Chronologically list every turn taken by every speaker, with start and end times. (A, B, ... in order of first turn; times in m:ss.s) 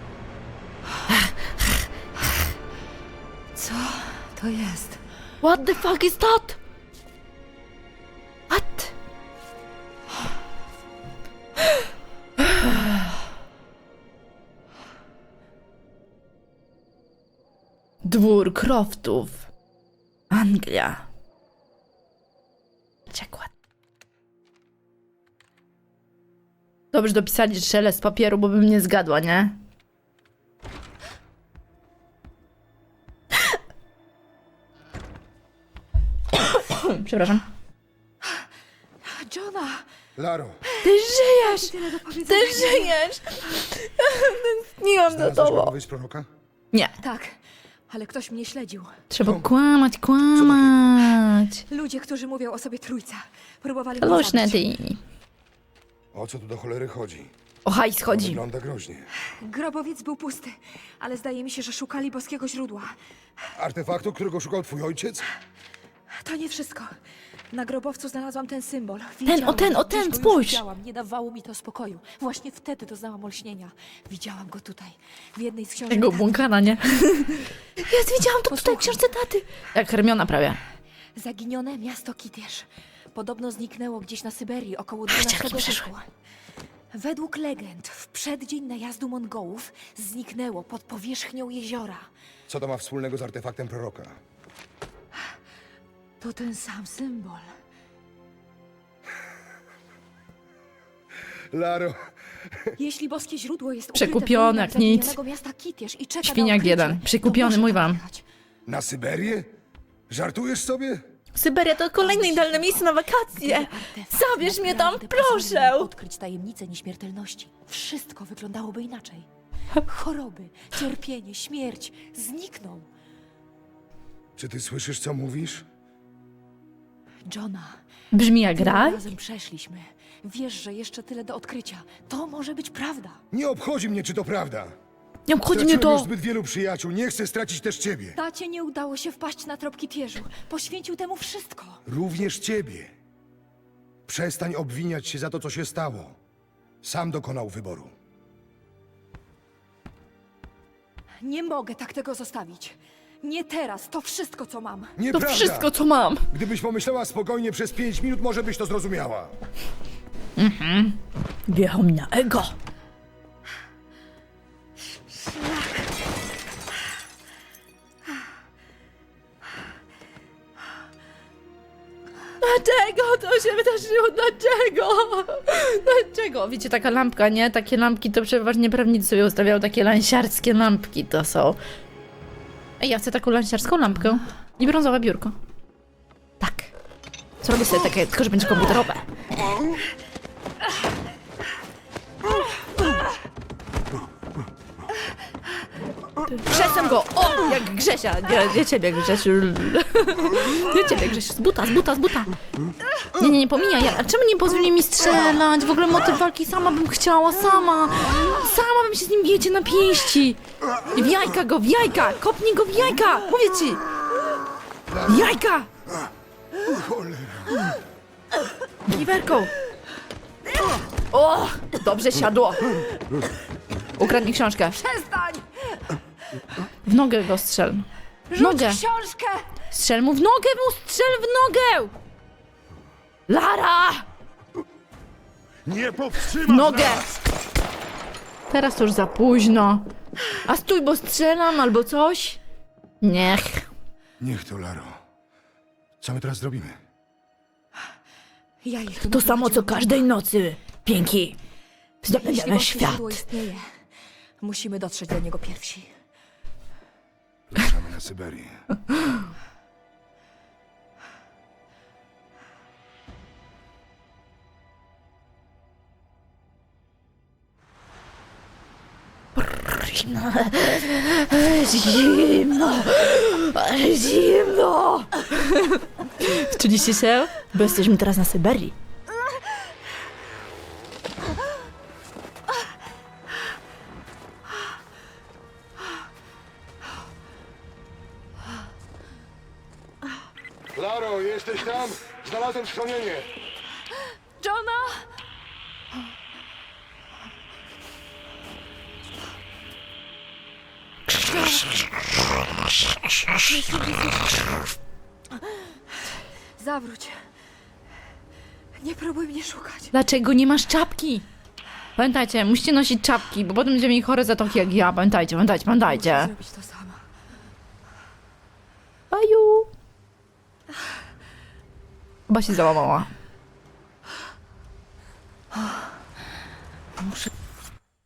0:01.1-0:01.7 A
0:03.6-0:05.0 B
0:05.4-0:06.6 A
0:08.5-0:08.9 A
0:12.4-0:13.1 A
0:18.0-0:19.5 A
0:20.3-0:21.0 A
0:23.1-0:23.5 A
0:26.9-0:29.6 A
0:36.3-0:37.4 A
0:39.0-0:39.9 B
0:40.2-0:40.6 C
0:40.8-0:45.7 A
0:41.4-0:43.0 B
0:45.1-0:46.3 C
0:47.0-0:47.4 B
0:47.9-0:49.0 B
0:49.1-0:51.6 A
0:50.4-0:50.8 C
0:51.7-0:54.7 B
0:54.0-0:55.0 A
0:56.1-0:57.3 C
0:57.7-0:58.4 A
0:58.1-0:59.1 C
0:59.3-1:03.0 B
1:03.6-1:05.3 C
1:06.2-1:07.0 B
1:07.5-1:16.4 B
1:09.3-1:10.6 A
1:15.9-1:20.6 A
1:18.4-1:19.1 B
1:21.2-1:26.1 B
1:25.1-1:25.9 A
1:26.9-1:32.1 B
1:32.5-1:34.2 C
1:36.2-1:37.5 B
1:41.5-1:42.0 C
1:42.8-1:48.2 B
1:44.0-1:45.2 A
1:46.2-1:48.0 A
1:48.7-1:49.5 C
1:50.1-1:51.0 C
1:51.4-1:55.9 A
1:52.0-2:02.9 B
2:04.4-2:05.6 C
2:07.3-2:07.8 B
2:08.1-2:09.0 A
2:08.6-2:13.2 B
2:13.3-2:14.7 C
2:15.3-2:16.1 A
2:15.5-2:18.2 C
2:18.2-2:21.8 B
2:21.9-2:22.9 C
2:24.1-2:26.2 C
2:26.8-2:27.9 C
2:31.2-2:34.9 B
2:35.0-2:35.7 C
2:35.1-2:36.3 A
2:36.3-2:39.3 C
2:40.4-2:42.6 A
2:52.4-3:01.6 A
3:02.8-3:05.4 A
3:06.4-3:06.7 A
3:07.4-3:09.1 A
3:16.3-3:22.3 A
3:23.2-3:33.8 A
3:34.9-3:35.3 C
3:35.1-3:35.7 A
3:36.6-3:37.7 C
3:38.9-3:39.5 A
3:41.1-3:42.9 A
3:44.0-3:44.8 A
3:44.8-3:45.8 B
3:46.8-3:48.8 A
3:48.3-3:49.5 B
3:49.7-3:51.9 A
3:53.3-3:54.1 A
3:55.7-3:57.0 C
3:56.4-3:57.1 A
3:58.5-3:59.9 A
4:00.4-4:02.4 A
4:03.0-4:03.7 A
4:04.2-4:05.0 C
4:06.0-4:06.8 C
4:08.6-4:10.0 B
4:09.0-4:11.4 A
4:12.0-4:13.2 A
4:12.1-4:13.8 B
4:14.4-4:15.9 B
4:17.5-4:18.5 C
4:18.9-4:19.2 A
4:29.4-4:38.8 A
4:50.8-4:53.3 C
4:54.4-4:55.0 B
5:01.2-5:01.8 B
5:03.4-5:04.5 B
5:06.6-5:07.2 B
5:08.8-5:09.9 B
5:09.9-5:11.3 A
5:12.0-5:16.3 A
5:15.8-5:17.1 B
5:19.1-5:19.7 A
5:22.3-5:23.1 A
5:27.0-5:27.3 B